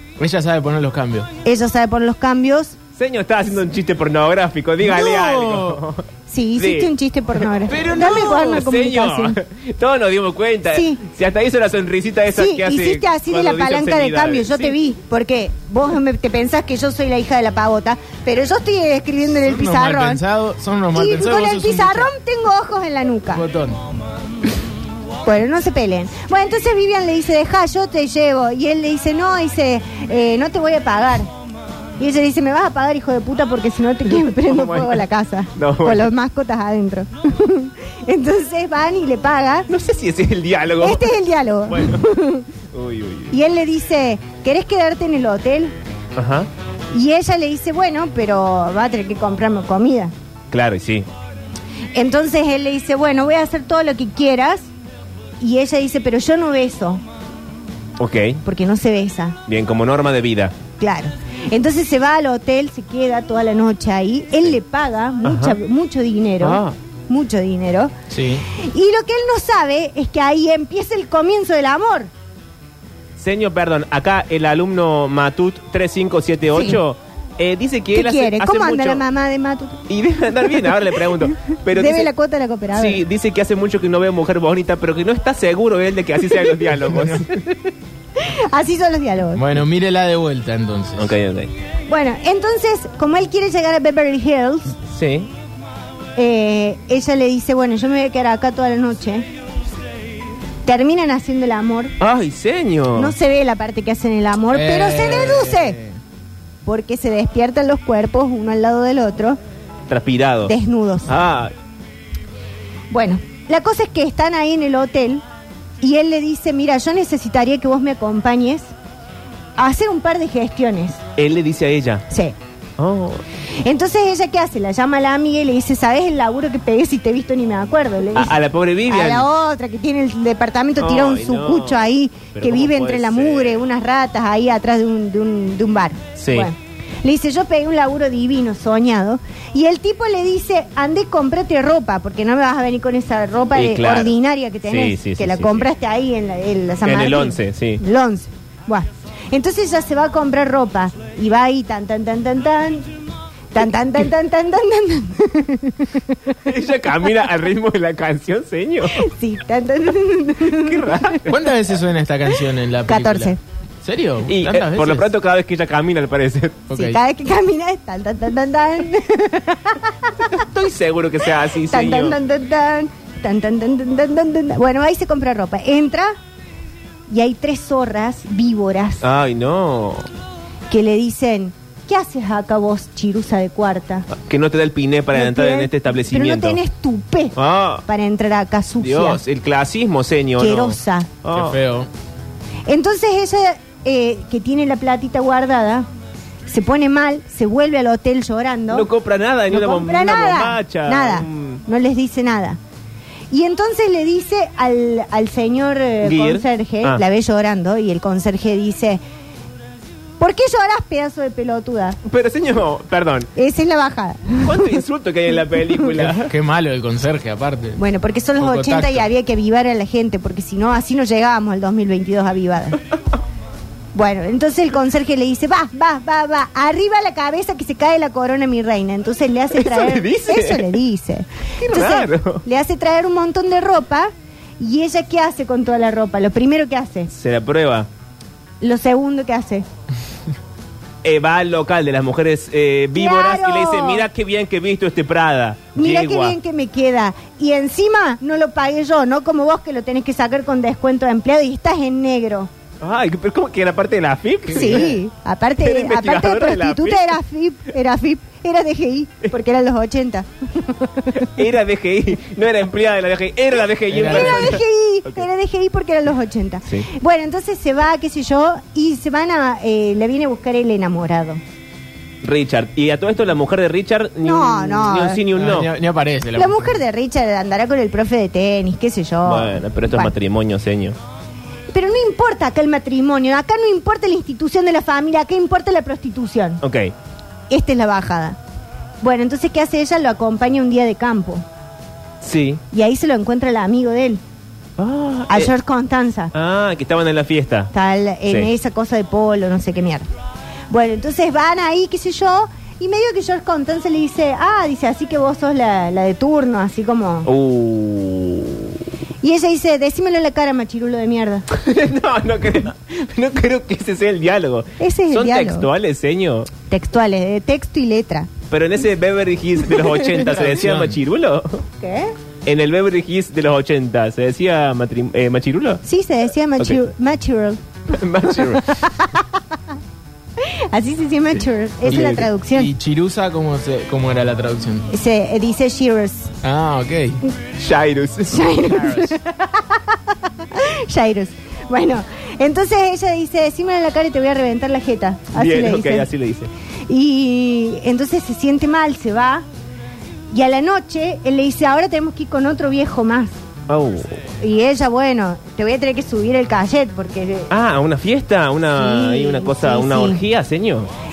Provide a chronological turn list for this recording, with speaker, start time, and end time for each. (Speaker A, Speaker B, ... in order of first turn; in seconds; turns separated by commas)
Speaker A: 0.2-1.3, Speaker B: 1.4-2.8, Speaker C: 3.0-6.1, Speaker A: 4.8-5.8, Speaker B: 6.3-9.4, Speaker C: 6.6-14.8, Speaker A: 7.7-8.6, Speaker B: 10.7-11.0, Speaker B: 12.3-20.2, Speaker A: 19.4-22.1, Speaker B: 20.9-23.4, Speaker A: 23.3-23.8, Speaker B: 25.2-31.3, Speaker B: 32.0-39.7, Speaker C: 34.2-35.0, Speaker C: 35.5-36.1, Speaker C: 39.7-42.1, Speaker B: 40.8-42.5, Speaker C: 42.7-43.4, Speaker B: 43.3-45.8, Speaker C: 46.2-46.5, Speaker B: 46.9-50.1, Speaker C: 50.5-51.1, Speaker B: 51.9-54.7, Speaker B: 55.4-57.0, Speaker C: 58.0-58.4, Speaker B: 58.4-59.4, Speaker C: 59.5-60.5, Speaker B: 60.8-67.9, Speaker C: 65.2-65.6, Speaker C: 66.4-66.8, Speaker A: 68.1-68.5, Speaker B: 68.5-72.1, Speaker C: 73.2-79.0, Speaker B: 76.5-76.8, Speaker B: 77.9-79.8, Speaker C: 79.9-82.1, Speaker B: 80.7-83.0, Speaker C: 82.7-87.4, Speaker A: 86.9-87.2, Speaker B: 88.2-89.5, Speaker A: 89.3-91.1, Speaker C: 91.0-91.5, Speaker B: 91.9-94.8, Speaker C: 94.9-95.3, Speaker B: 96.2-99.3, Speaker B: 100.7-102.0, Speaker C: 102.0-103.2, Speaker B: 103.0-105.8, Speaker A: 104.5-106.0, Speaker B: 106.7-109.4, Speaker C: 109.9-110.5, Speaker B: 110.5-111.1, Speaker C: 111.1-111.5, Speaker B: 112.9-115.2, Speaker B: 115.8-118.7, Speaker B: 119.6-121.0, Speaker C: 121.2-122.1, Speaker B: 122.1-122.3, Speaker C: 122.8-123.2, Speaker B: 123.6-128.4, Speaker C: 128.1-129.3, Speaker B: 128.9-152.9, Speaker C: 130.8-133.6, Speaker C: 136.2-136.5, Speaker C: 143.6-144.2, Speaker C: 144.7-145.7, Speaker C: 146.8-147.8, Speaker B: 153.5-156.3, Speaker C: 156.4-159.1, Speaker B: 158.9-161.2, Speaker C: 160.5-161.4, Speaker A: 161.3-165.1, Speaker B: 162.9-163.4, Speaker C: 164.3-166.7, Speaker A: 166.7-167.0, Speaker B: 166.7-170.4, Speaker C: 170.3-172.2, Speaker B: 171.7-176.2, Speaker B: 177.1-179.0, Speaker C: 179.0-180.1, Speaker B: 180.7-184.1, Speaker C: 184.1-186.6, Speaker B: 185.1-189.2, Speaker C: 187.4-187.8, Speaker C: 188.8-191.6, Speaker B: 190.4-191.1, Speaker A: 191.3-191.9, Speaker B: 192.7-195.9, Speaker B: 196.5-198.9, Speaker C: 198.7-201.6, Speaker B: 199.5-202.6, Speaker B: 203.3-209.0, Speaker C: 206.0-207.0, Speaker B: 210.2-212.0, Speaker C: 212.1-213.3, Speaker B: 213.4-214.8, Speaker C: 214.4-216.3, Speaker A: 216.2-217.8, Speaker B: 217.8-222.8, Speaker A: 218.4-219.1, Speaker B: 223.9-237.1, Speaker C: 229.5-230.8, Speaker C: 231.6-232.4, Speaker C: 237.1-237.9, Speaker B: 238.6-239.7, Speaker C: 241.0-246.4, Speaker B: 242.9-244.1, Speaker B: 245.8-252.5, Speaker C: 252.8-255.0, Speaker B: 254.5-261.3, Speaker C: 255.6-257.2, Speaker C: 261.2-265.2, Speaker A: 263.9-264.6, Speaker B: 264.0-271.4, Speaker C: 272.2-275.7, Speaker B: 274.2-275.2, Speaker A: 275.3-276.8, Speaker B: 276.4-280.1, Speaker C: 279.2-281.0, Speaker B: 281.7-286.6, Speaker C: 286.6-286.9, Speaker B: 287.5-288.4, Speaker B: 289.0-291.4, Speaker C: 292.2-292.6, Speaker B: 292.7-294.2, Speaker C: 294.8-295.5, Speaker B: 295.3-296.3, Speaker C: 296.3-297.7, Speaker B: 297.7-300.1, Speaker B: 300.7-307.3, Speaker C: 307.3-308.8, Speaker B: 309.2-311.5, Speaker C: 311.5-316.5, Speaker B: 314.8-315.7, Speaker B: 316.7-318.3, Speaker C: 318.5-321.6, Speaker A: 320.2-321.0, Speaker B: 321.8-322.1, Speaker C: 322.4-325.8, Speaker B: 325.8-327.6, Speaker C: 327.9-328.8, Speaker B: 328.4-329.5, Speaker B: 330.4-332.7, Speaker C: 331.9-332.2, Speaker A: 331.9-334.9, Speaker B: 334.9-336.3, Speaker A: 336.4-337.2, Speaker C: 337.6-338.6, Speaker B: 338.3-346.1, Speaker C: 345.3-346.5, Speaker B: 346.9-349.4, Speaker B: 350.3-353.3, Speaker C: 353.7-354.2, Speaker B: 354.4-357.5, Speaker C: 357.5-360.9, Speaker B: 358.8-360.2